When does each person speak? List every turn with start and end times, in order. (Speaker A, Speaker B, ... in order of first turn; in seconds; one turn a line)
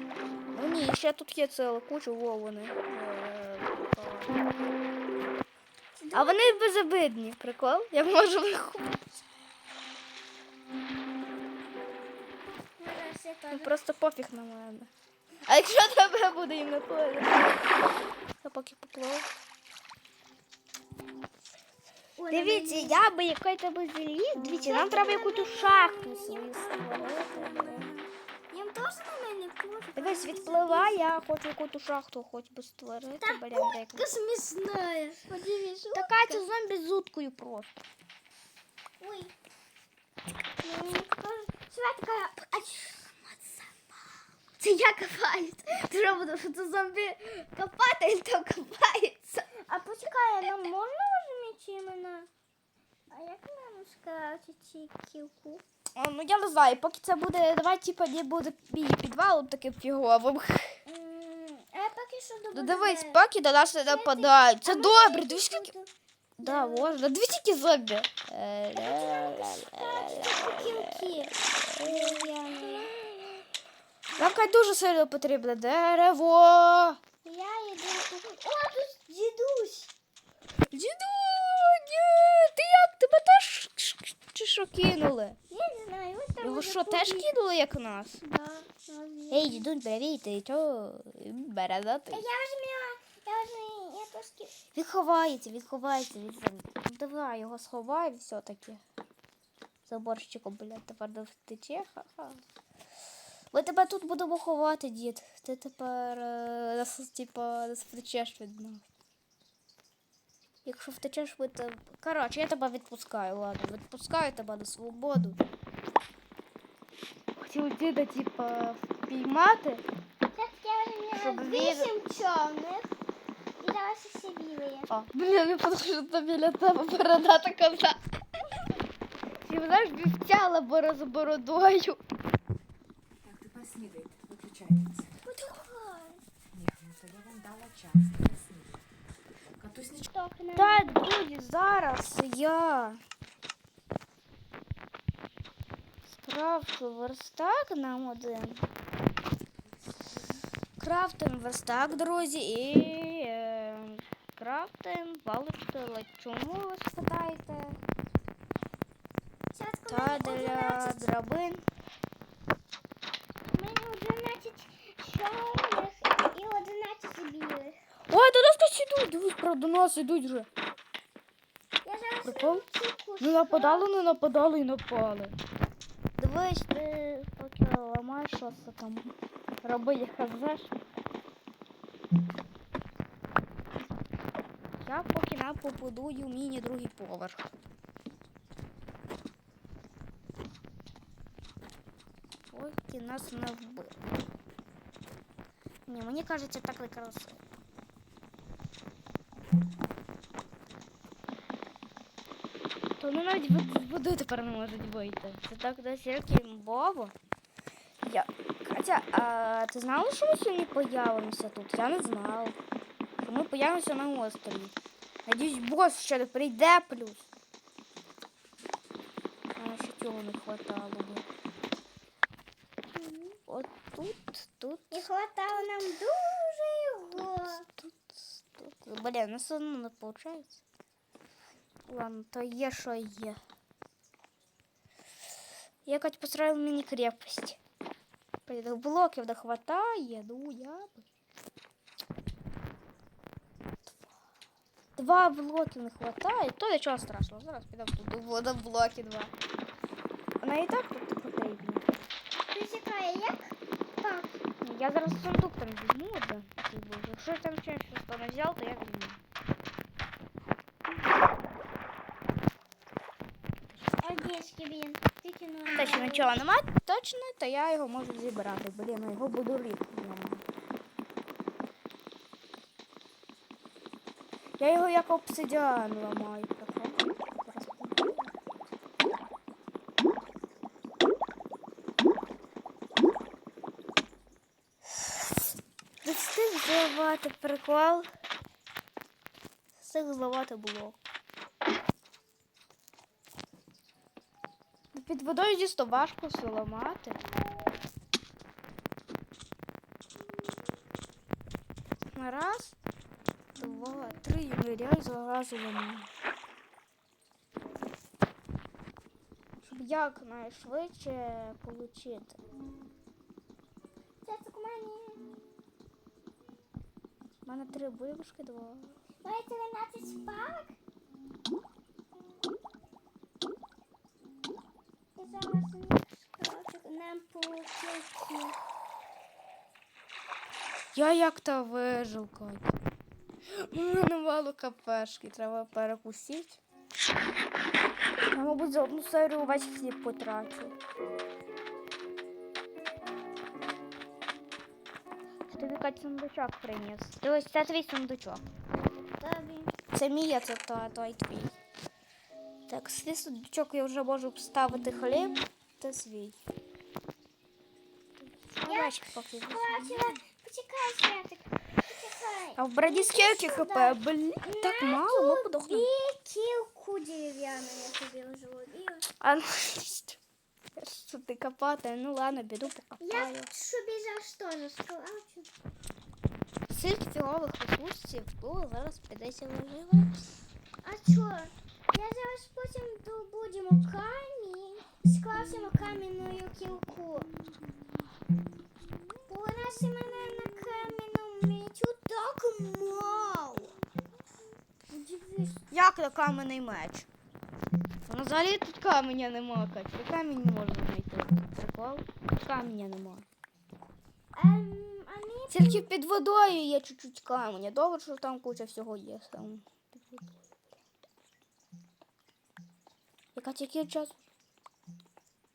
Speaker A: 0.5-4.5
Speaker B: 6.0-6.5
Speaker A: 6.1-9.1
Speaker B: 12.8-13.7
Speaker A: 13.5-14.9
Speaker A: 15.5-17.7
Speaker A: 18.4-19.3
Speaker B: 22.2-23.0
Speaker A: 22.3-27.9
Speaker B: 24.4-31.0
Speaker A: 29.9-34.1
Speaker B: 33.2-36.4
Speaker A: 35.9-37.8
Speaker B: 39.0-39.3
Speaker B: 40.6-43.2
Speaker B: 44.6-52.3
Speaker B: 53.1-55.6
Speaker A: 56.0-60.8
Speaker B: 60.9-63.2
Speaker A: 62.5-65.7
Speaker B: 63.9-65.9
Speaker A: 66.4-72.8
Speaker B: 66.4-67.0
Speaker B: 68.8-73.4
Speaker B: 74.2-74.5
Speaker A: 74.2-77.0
Speaker B: 77.2-79.9
Speaker A: 80.7-85.4
Speaker B: 85.5-87.3
Speaker A: 86.4-88.2
Speaker B: 88.2-89.7
Speaker A: 89.3-92.2
Speaker B: 92.1-94.5
Speaker A: 94.7-98.8
Speaker A: 99.9-102.4
Speaker A: 103.5-108.8
Speaker A: 110.6-115.4
Speaker A: 117.4-119.8
Speaker B: 120.3-122.9
Speaker A: 121.1-121.9
Speaker B: 123.6-124.9
Speaker A: 124.9-128.0
Speaker A: 129.4-132.0
Speaker C: 133.2-135.0
Speaker B: 135.2-136.2
Speaker C: 136.5-138.7
Speaker C: 139.6-140.0
Speaker B: 140.0-141.0
Speaker A: 140.6-143.0
Speaker A: 146.1-148.6
Speaker A: 150.8-157.8
Speaker B: 159.5-161.1
Speaker A: 159.9-161.6
Speaker B: 163.5-167.8
Speaker A: 168.1-170.5
Speaker B: 171.8-174.1
Speaker A: 172.2-172.6
Speaker A: 173.2-175.3
Speaker A: 176.2-180.7
Speaker A: 184.8-187.4
Speaker A: 192.5-193.9
Speaker A: 195.9-197.4
Speaker A: 203.0-207.1
Speaker A: 208.0-212.6
Speaker A: 213.2-214.7
Speaker A: 215.2-217.2
Speaker A: 219.6-221.3
Speaker B: 222.9-223.4
Speaker A: 223.5-225.0
Speaker B: 224.9-227.7
Speaker A: 227.7-230.6
Speaker A: 231.8-233.4
Speaker A: 235.8-237.6
Speaker A: 238.4-241.1
Speaker A: 245.0-249.3
Speaker A: 250.4-252.0
Speaker B: 252.3-254.3
Speaker A: 254.6-259.2
Speaker B: 264.0-266.3
Speaker A: 265.7-270.4
Speaker A: 274.6-278.3
Speaker A: 286.0-288.1
Speaker A: 289.8-291.0
Speaker A: 294.9-297.2
Speaker A: 302.1-302.8
Speaker A: 303.6-306.1
Speaker A: 309.6-312.4
Speaker B: 314.2-315.3
Speaker A: 317.4-319.0
Speaker B: 319.2-320.8
Speaker B: 325.1-328.6
Speaker A: 330.9-332.7
Speaker A: 333.5-336.6
Speaker A: 338.3-340.7
Speaker A: 345.5-348.4
Speaker B: 349.2-349.7
Speaker A: 349.9-351.5
Speaker A: 352.7-356.4
Speaker A: 358.2-360.2
Speaker B: 358.6-359.0
Speaker B: 359.5-369.0
Speaker A: 362.6-365.9
Speaker A: 369.2-370.2
Speaker A: 370.8-373.5
Speaker B: 373.0-375.5
Speaker A: 376.7-380.2
Speaker B: 380.8-387.3
Speaker A: 386.2-386.8
Speaker B: 389.3-393.8
Speaker B: 394.9-395.6
Speaker A: 395.7-397.1
Speaker A: 398.1-403.2
Speaker B: 404.3-405.9
Speaker A: 405.5-410.5
Speaker A: 413.3-414.2